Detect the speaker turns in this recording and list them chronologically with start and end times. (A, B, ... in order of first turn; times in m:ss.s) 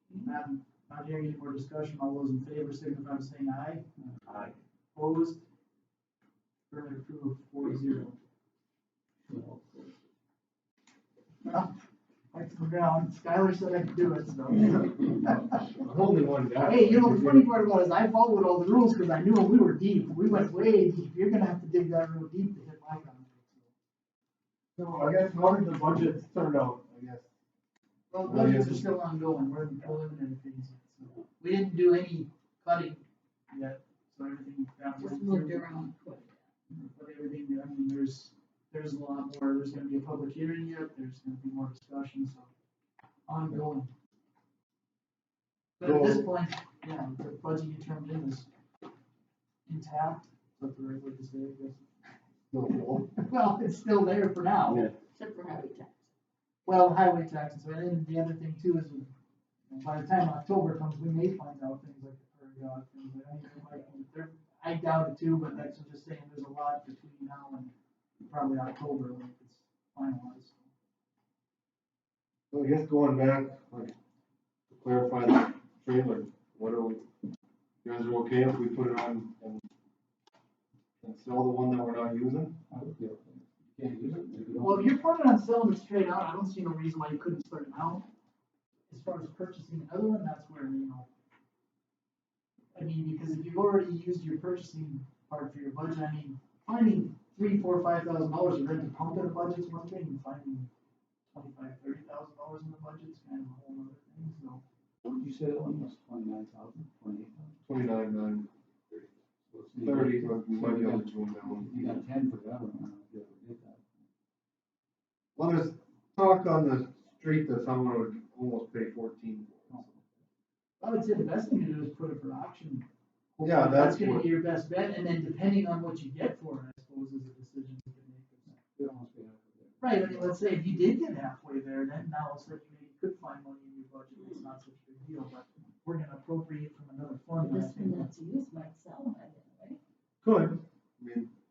0:00.1-0:03.8 A
0:04.0-0:04.4 B
0:04.9-0:05.4 A
0:06.7-0:08.2 A
0:09.3-0:09.9 B
0:11.4-0:11.7 A
0:12.3-0:15.7 A
0:15.7-0:17.5 C
0:16.6-0:23.7 A
0:24.8-0:27.3 C
0:28.1-0:35.7 A
0:28.2-0:28.9 C
0:35.0-0:36.4 D
0:36.8-0:42.5 A
0:43.3-0:43.9 A
0:45.8-0:48.5 A
0:45.8-0:46.2 C
0:49.6-0:51.9 A
0:52.5-0:53.1 C
0:53.0-0:54.9 A
0:54.7-0:54.9 C
0:55.1-0:56.0 D
0:56.6-0:59.1 A
0:59.7-1:07.7 A
1:08.2-1:10.6 A
1:12.5-1:13.9 C
1:14.7-1:17.0 C
1:17.8-1:19.6 C
1:21.0-1:22.6 C
1:22.7-1:24.9 B
1:24.6-1:28.1 A
1:28.9-1:31.1 A
1:32.7-1:40.7 A
1:41.3-1:44.6 A
1:45.0-1:47.5 B
1:47.6-1:48.5 C
1:49.5-1:53.9 B
1:49.8-1:52.0 C
1:55.4-1:59.8 C
1:59.7-2:00.1 B
2:00.8-2:08.6 A
2:03.4-2:04.3 C
2:08.5-2:10.4 B
2:09.8-2:18.1 A
2:17.4-2:19.8 D
2:20.2-2:21.3 C